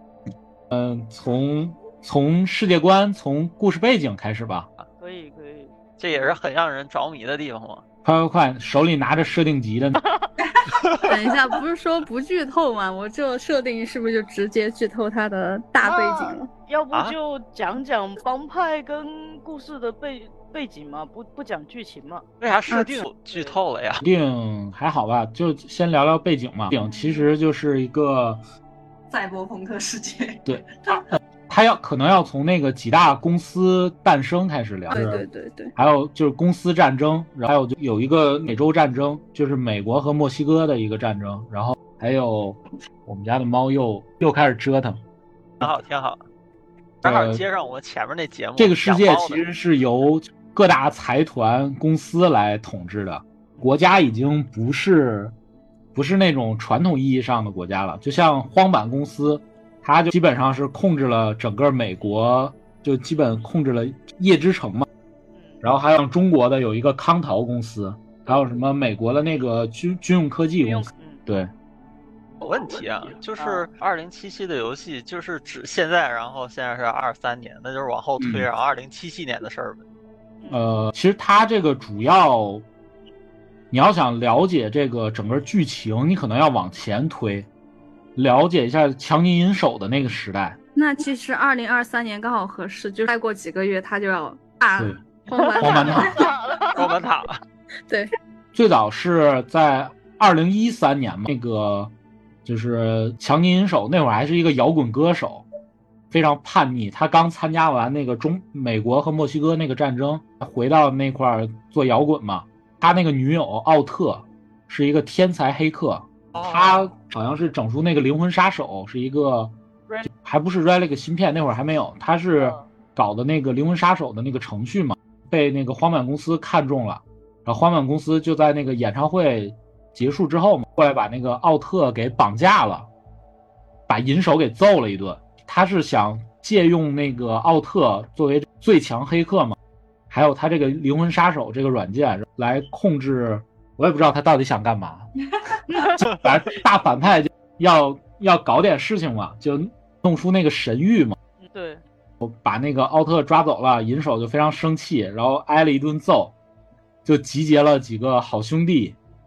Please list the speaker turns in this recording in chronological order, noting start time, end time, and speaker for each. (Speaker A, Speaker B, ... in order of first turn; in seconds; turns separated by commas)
Speaker A: 0.7-4.7, Speaker B: 5.0-6.3, Speaker C: 6.0-7.8, Speaker A: 8.0-10.0, Speaker B: 10.0-10.3, Speaker D: 10.4-11.1, Speaker C: 10.8-11.1, Speaker E: 11.1-16.5, Speaker B: 15.8-22.2, Speaker C: 22.4-24.1, Speaker E: 22.7-23.0, Speaker B: 23.3-23.6, Speaker A: 24.0-28.4, Speaker B: 26.8-27.3, Speaker D: 29.1-31.0, Speaker A: 30.5-35.2, Speaker E: 34.9-35.7, Speaker A: 35.8-45.0, Speaker C: 45.6-46.2, Speaker A: 47.0-47.4, Speaker C: 47.0-49.4, Speaker A: 48.6-55.3, Speaker A: 56.0-64.9, Speaker B: 65.3-65.6, Speaker A: 65.6-71.5, Speaker B: 68.3-68.6, Speaker B: 70.6-71.2, Speaker C: 72.4-79.8, Speaker B: 73.4-73.7, Speaker A: 78.2-78.5, Speaker A: 80.5-82.7, Speaker A: 83.7-87.5, Speaker A: 88.2-90.6, Speaker E: 90.8-96.3, Speaker A: 94.8-95.0, Speaker B: 95.3-97.0, Speaker A: 95.6-96.2, Speaker C: 96.8-97.4, Speaker A: 98.5-101.9, Speaker A: 102.5-105.5, Speaker A: 106.1-132.9, Speaker C: 116.3-116.9, Speaker B: 122.4-122.7, Speaker A: 133.9-139.6, Speaker A: 140.1-145.1, Speaker B: 145.7-146.0, Speaker A: 146.0-151.2, Speaker B: 151.4-151.8, Speaker A: 152.2-156.3, Speaker A: 157.1-159.0